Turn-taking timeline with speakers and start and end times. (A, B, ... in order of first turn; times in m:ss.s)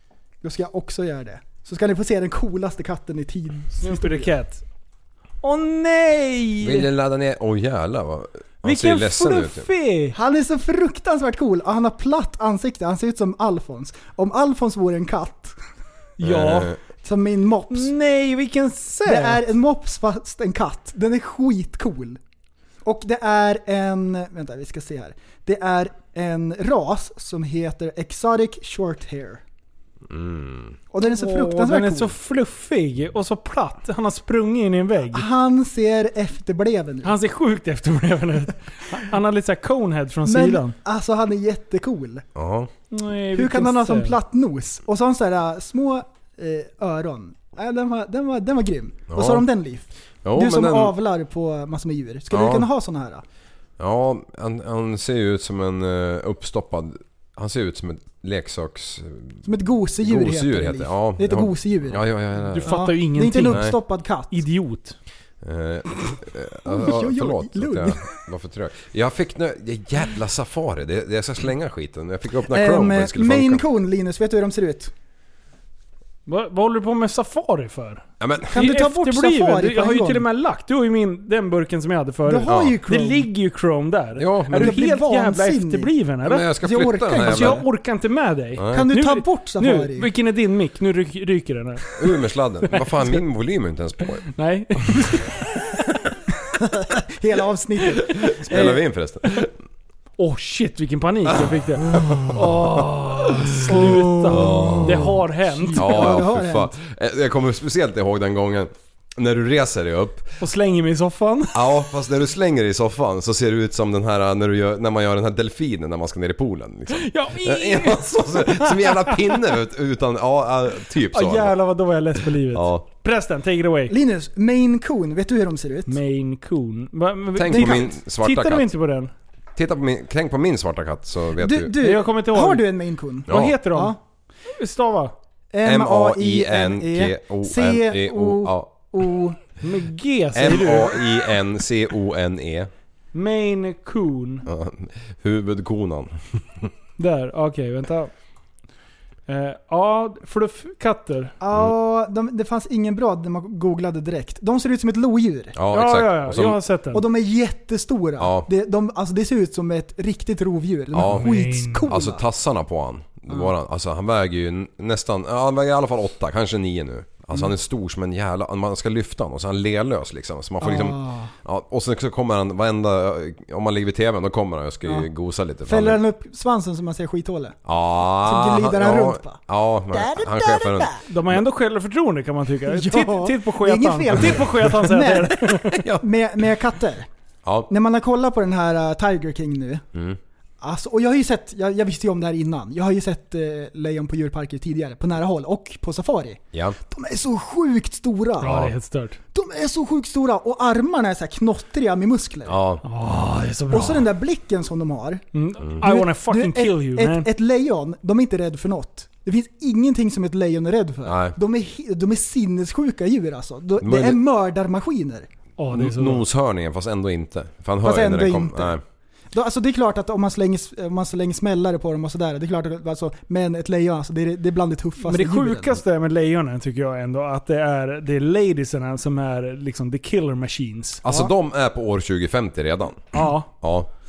0:00.4-0:04.3 A
0:03.8-0:04.6 B
0:05.4-0:06.9 B
0:06.6-0:09.7 C
0:08.6-0:10.2 B
0:10.1-0:15.6 A
0:16.2-0:16.7 B
0:16.2-0:16.8 C
0:17.0-0:17.9 A
0:17.7-0:19.4 B
0:19.0-0:22.2 A
0:22.8-0:29.4 A
0:30.1-0:30.8 C
0:30.9-0:32.2 A
0:31.0-0:35.2 B
0:35.1-0:37.2 A
0:37.0-0:40.7 B
0:40.3-0:42.2 A
0:42.4-0:42.7 C
0:42.9-0:44.2 B
0:43.3-0:53.2 A
0:49.1-0:49.4 C
0:50.2-0:50.9 C
0:52.3-0:52.7 C
0:53.8-0:59.4 C
0:59.4-1:02.0 A
1:00.0-1:02.8 C
1:02.6-1:03.6 B
1:02.6-1:04.4 A
1:04.3-1:05.0 B
1:05.4-1:13.6 C
1:06.6-1:08.1 A
1:12.4-1:14.9 A
1:16.3-1:26.5 B
1:18.2-1:18.6 C
1:18.5-1:20.3 A
1:22.2-1:23.3 A
1:22.5-1:22.8 C
1:24.2-1:24.8 C
1:24.5-1:25.9 A
1:26.2-1:27.6 C
1:26.6-1:27.6 A
1:27.2-1:32.0 B
1:28.6-1:28.8 C
1:28.7-1:30.1 A
1:32.0-1:34.3 C
1:34.3-1:35.8 B
1:36.6-1:38.8 A
1:38.0-1:39.5 C
1:40.2-1:46.2 B
1:41.9-1:42.3 C
1:43.7-1:46.7 A
1:44.3-1:45.1 C
1:45.8-1:50.4 C
1:50.4-1:51.7 B
1:51.6-2:01.6 C
1:56.9-1:59.3 B
2:01.1-2:03.9 B
2:02.2-2:02.8 C
2:03.9-2:06.0 A
2:05.9-2:09.1 B
2:07.4-2:08.7 C
2:07.5-2:07.9 A
2:09.6-2:11.8 C
2:11.4-2:14.0 A
2:11.8-2:12.6 B
2:13.3-2:14.0 B
2:13.3-2:13.6 C
2:14.5-2:15.1 B
2:15.5-2:19.4 A
2:15.6-2:18.9 C
2:19.6-2:21.0 B
2:20.4-2:22.7 C
2:23.1-2:24.4 B
2:24.5-2:26.7 C
2:27.0-2:28.1 B
2:29.3-2:31.3 B
2:31.4-2:35.6 A
2:35.6-2:36.6 C
2:35.7-2:37.0 B
2:36.9-2:42.2 A
2:38.2-2:38.5 C
2:41.0-2:41.3 C
2:41.0-2:41.9 B
2:41.9-2:56.0 C
2:50.6-2:51.3 A
2:55.7-2:57.6 A
2:57.7-3:01.0 C
2:58.2-3:01.0 A
3:01.1-3:05.8 B
3:02.7-3:07.1 A
3:07.4-3:07.7 C
3:07.7-3:09.8 A
3:10.6-3:18.7 A
3:18.4-3:19.2 B
3:18.5-3:18.7 C
3:19.3-3:22.6 A
3:22.5-3:22.8 C
3:22.8-3:24.1 B
3:23.7-3:25.2 A
3:25.3-3:27.3 B
3:25.8-3:35.3 A
3:31.1-3:31.4 C
3:33.8-3:34.2 C
3:35.6-3:36.2 B
3:35.7-3:38.8 C
3:37.8-3:38.8 A
3:39.3-3:45.8 A
3:45.0-3:51.0 B
3:51.0-3:53.9 C
3:51.1-3:51.3 A
3:53.1-3:53.5 B